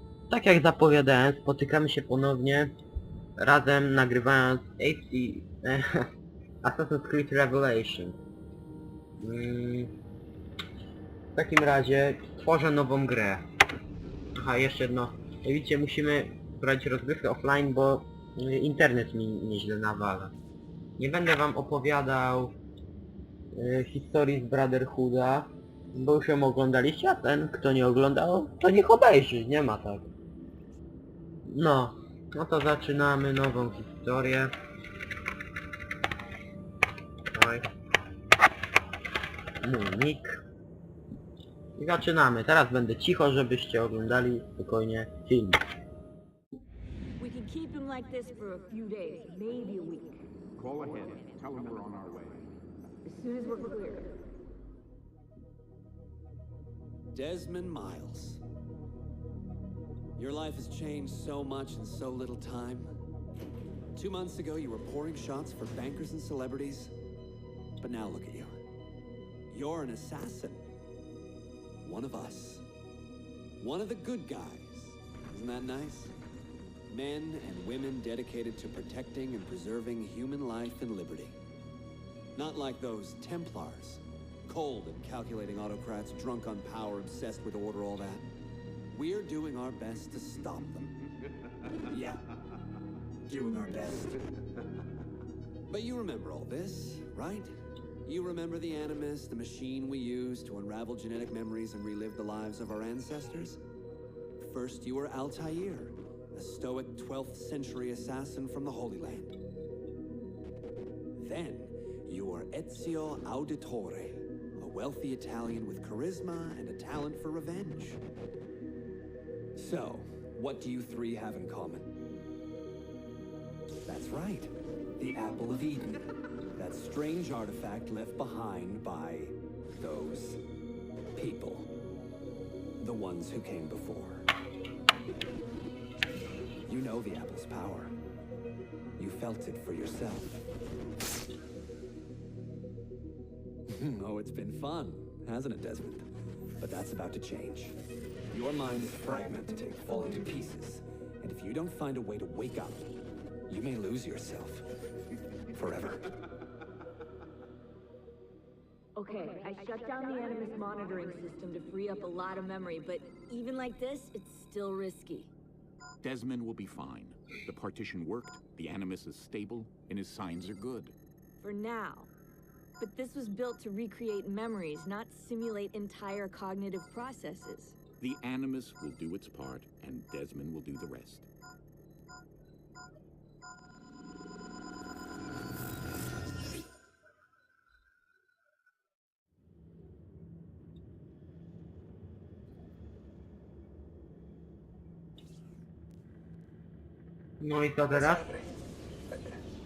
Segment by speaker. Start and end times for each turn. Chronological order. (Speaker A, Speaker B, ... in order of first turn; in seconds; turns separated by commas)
Speaker A: 0.3-2.7, Speaker A: 3.4-6.1, Speaker A: 6.6-8.2, Speaker A: 9.2-9.9, Speaker A: 11.3-13.4, Speaker A: 14.3-20.3, Speaker A: 21.0-22.6, Speaker A: 23.5-30.1, Speaker A: 31.5-34.5, Speaker A: 37.3-37.6, Speaker A: 39.6-40.4, Speaker A: 41.8-45.6, Speaker B: 47.2-50.2, Speaker C: 50.5-52.5, Speaker B: 53.0-54.1, Speaker D: 57.1-58.4, Speaker D: 60.2-62.9, Speaker D: 63.9-66.9, Speaker D: 67.8-68.5, Speaker D: 69.5-70.7, Speaker D: 71.8-72.7, Speaker D: 73.6-76.1, Speaker D: 76.9-81.4, Speaker D: 82.3-88.2, Speaker D: 88.9-90.9, Speaker D: 91.8-92.2, Speaker D: 93.3-94.2, Speaker D: 95.7-97.5, Speaker D: 98.0-103.6, Speaker D: 104.4-109.4, Speaker D: 111.2-118.0, Speaker D: 119.5-121.9, Speaker D: 123.8-130.4, Speaker D: 131.2-131.7, Speaker D: 132.8-134.3, Speaker D: 136.7-137.9, Speaker D: 139.0-140.4, Speaker D: 143.7-146.1, Speaker D: 146.6-147.8, Speaker D: 148.3-152.9, Speaker D: 153.5-154.7, Speaker D: 155.5-156.1, Speaker B: 158.9-165.3, Speaker C: 166.0-170.9, Speaker B: 171.4-172.1, Speaker B: 172.8-177.8, Speaker C: 178.0-181.3, Speaker A: 197.4-198.3